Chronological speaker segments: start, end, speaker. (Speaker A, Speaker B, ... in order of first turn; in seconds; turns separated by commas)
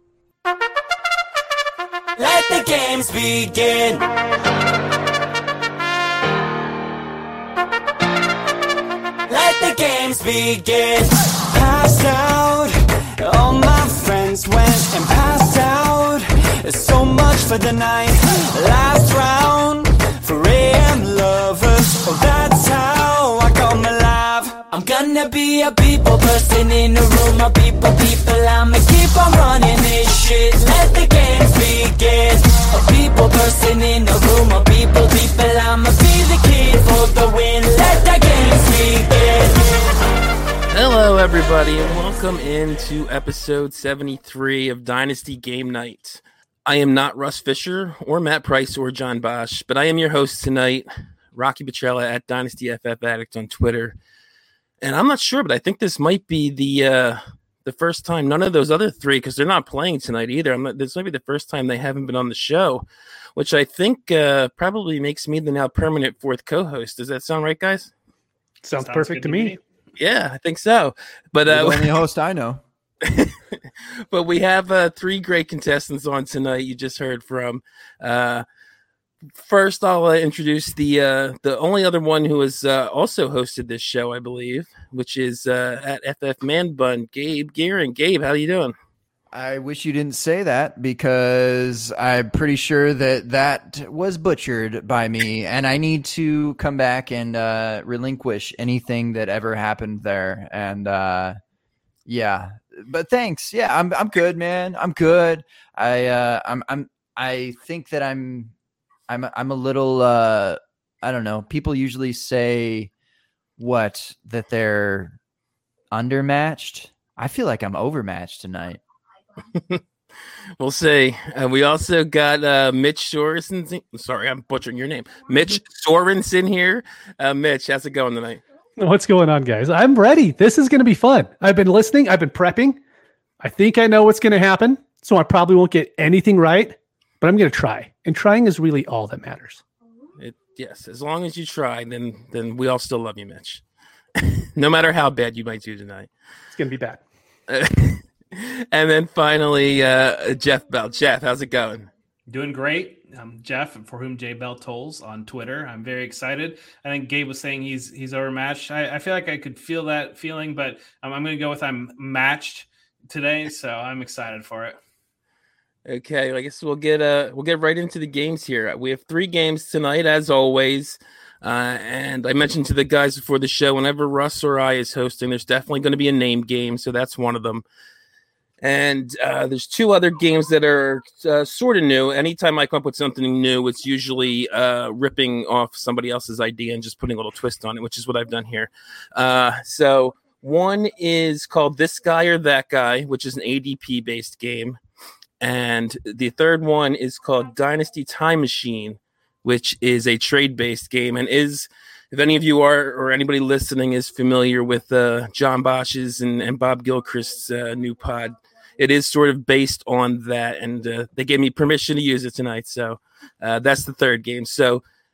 Speaker A: 2.2-4.0, Speaker A: 9.3-39.8, Speaker B: 40.7-54.0, Speaker B: 54.8-62.9, Speaker B: 63.4-67.9, Speaker C: 68.6-69.6, Speaker D: 68.8-69.6, Speaker B: 70.0-72.0, Speaker E: 71.5-72.6, Speaker B: 73.0-73.4, Speaker B: 74.1-78.5, Speaker B: 79.4-88.7, Speaker E: 89.3-101.4, Speaker E: 102.1-108.5, Speaker E: 109.1-112.9, Speaker E: 113.6-115.2, Speaker E: 115.9-118.8, Speaker B: 119.5-119.8, Speaker B: 120.6-128.4, Speaker C: 128.8-132.8, Speaker C: 133.4-139.6, Speaker B: 140.2-143.6, Speaker B: 144.2-146.1, Speaker C: 146.5-147.0, Speaker B: 147.5-151.9, Speaker D: 152.3-164.8, Speaker B: 165.9-177.7, Speaker B: 178.6-194.8, Speaker B: 195.4-214.8